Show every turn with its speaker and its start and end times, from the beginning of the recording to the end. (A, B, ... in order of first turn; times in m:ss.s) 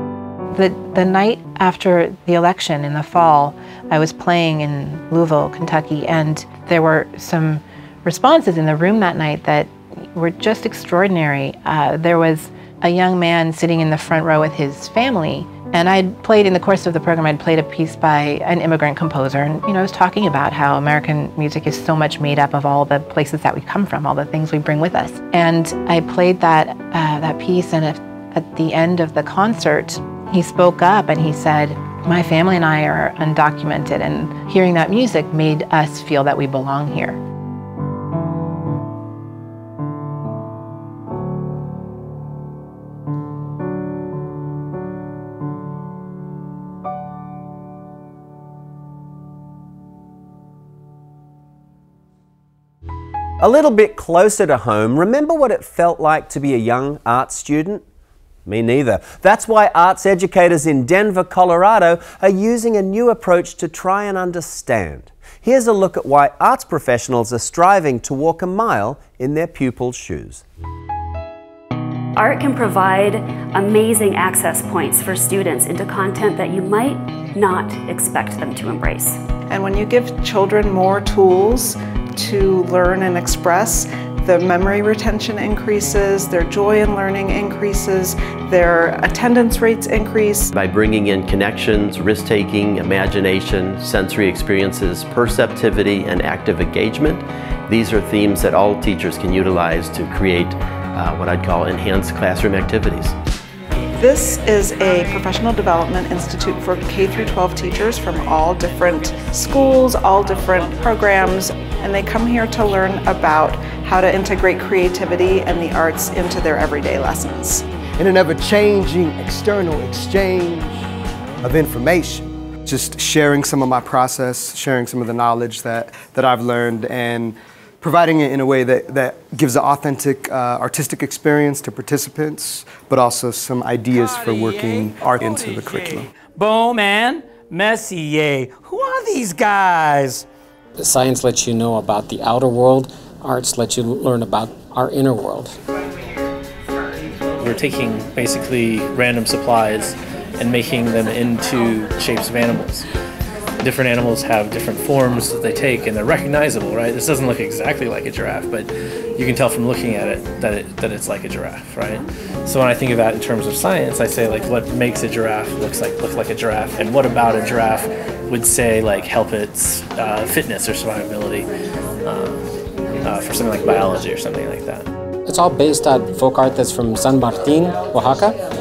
0:00.5-0:37.2 A
0:53.4-0:57.8 B
0:58.4-1:10.4 B
1:12.1-1:19.2 C
1:19.5-1:30.5 D
1:30.5-1:43.2 E
1:43.9-1:57.6 D
1:58.0-2:00.8 F
2:01.4-2:16.1 F
2:13.9-2:20.2 G
2:20.8-2:25.6 H
2:27.4-2:32.8 I
2:33.6-2:51.5 I
2:52.0-2:52.5 I
2:53.0-2:54.9 I
2:55.2-2:58.4 H